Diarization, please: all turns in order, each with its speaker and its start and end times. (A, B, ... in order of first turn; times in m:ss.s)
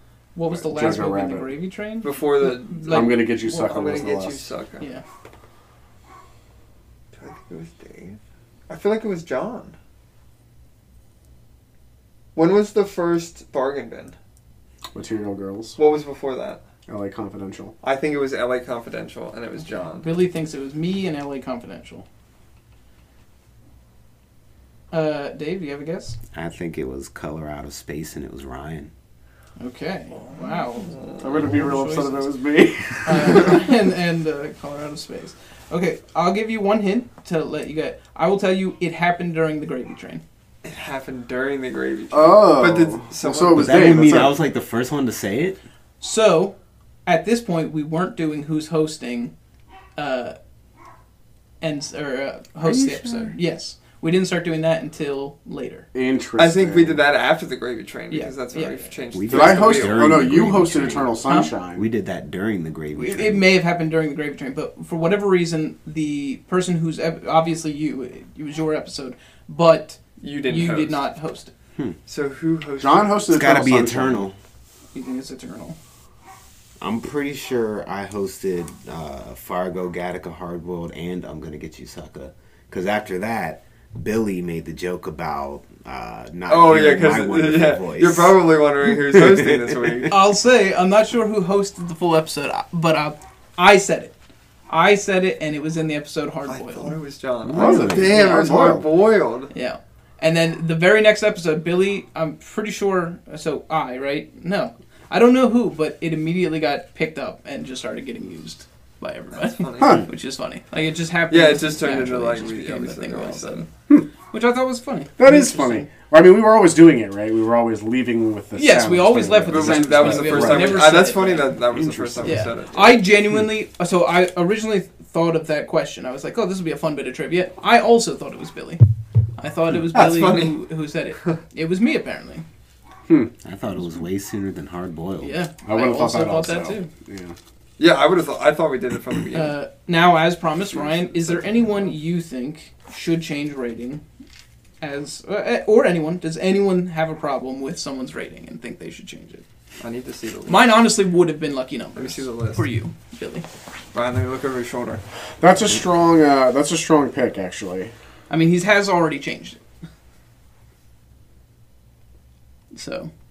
0:00.4-0:03.6 A
0:00.5-0:01.5 B
0:02.0-0:04.8 C
0:02.9-0:04.4 B
0:07.2-0:09.8 C
0:12.4-0:14.2 C
0:14.9-0:15.8 B
0:15.8-0:16.6 C
0:16.9-0:17.7 B
0:17.8-0:20.1 C
0:20.0-0:22.0 A
0:24.9-0:26.2 A
0:26.3-0:28.9 D
0:29.6-0:32.3 A
0:30.8-0:31.5 C
0:31.2-0:33.6 B
0:33.0-0:40.2 A
0:40.6-0:44.2 C
0:42.1-0:44.4 B
0:43.5-0:45.6 D
0:46.0-0:46.6 A
0:47.1-0:49.3 A
0:50.0-0:50.4 A
0:51.6-0:55.9 A
0:52.6-0:53.4 D
0:55.9-0:57.0 B
0:56.4-1:00.2 C
0:58.1-0:58.9 A
0:59.1-1:01.2 D
0:59.3-1:01.9 B
1:01.3-1:01.5 A
1:01.8-1:03.4 D
1:03.0-1:11.5 A
1:10.2-1:11.0 C
1:12.1-1:13.2 C
1:12.8-1:14.3 B
1:13.3-1:14.4 D
1:14.9-1:15.8 A
1:16.8-1:28.4 D
1:26.5-1:30.2 C
1:29.1-1:30.1 D
1:30.1-1:34.1 A
1:34.7-1:37.0 A
1:36.5-1:39.5 C
1:37.4-1:38.3 D
1:37.5-1:38.9 B
1:39.5-1:53.7 A
1:49.4-1:50.0 C
1:49.8-1:50.0 B
1:51.3-1:53.7 C
1:54.3-1:55.9 A
1:55.2-2:00.9 B
1:58.6-2:01.6 A
1:59.5-2:03.0 C
2:01.9-2:02.2 D
2:02.2-2:08.8 A
2:09.4-2:12.4 A
2:09.9-2:10.6 C
2:13.4-2:15.3 D
2:15.2-2:16.9 A
2:15.6-2:17.4 B
2:17.8-2:19.6 C
2:19.3-2:24.0 A
2:20.7-2:21.5 B
2:24.8-2:29.4 A
2:29.8-2:30.8 C
2:30.5-2:33.5 A
2:32.0-2:32.6 C
2:33.9-2:35.0 C
2:35.4-2:37.9 B
2:38.3-2:39.6 A
2:42.7-2:43.1 A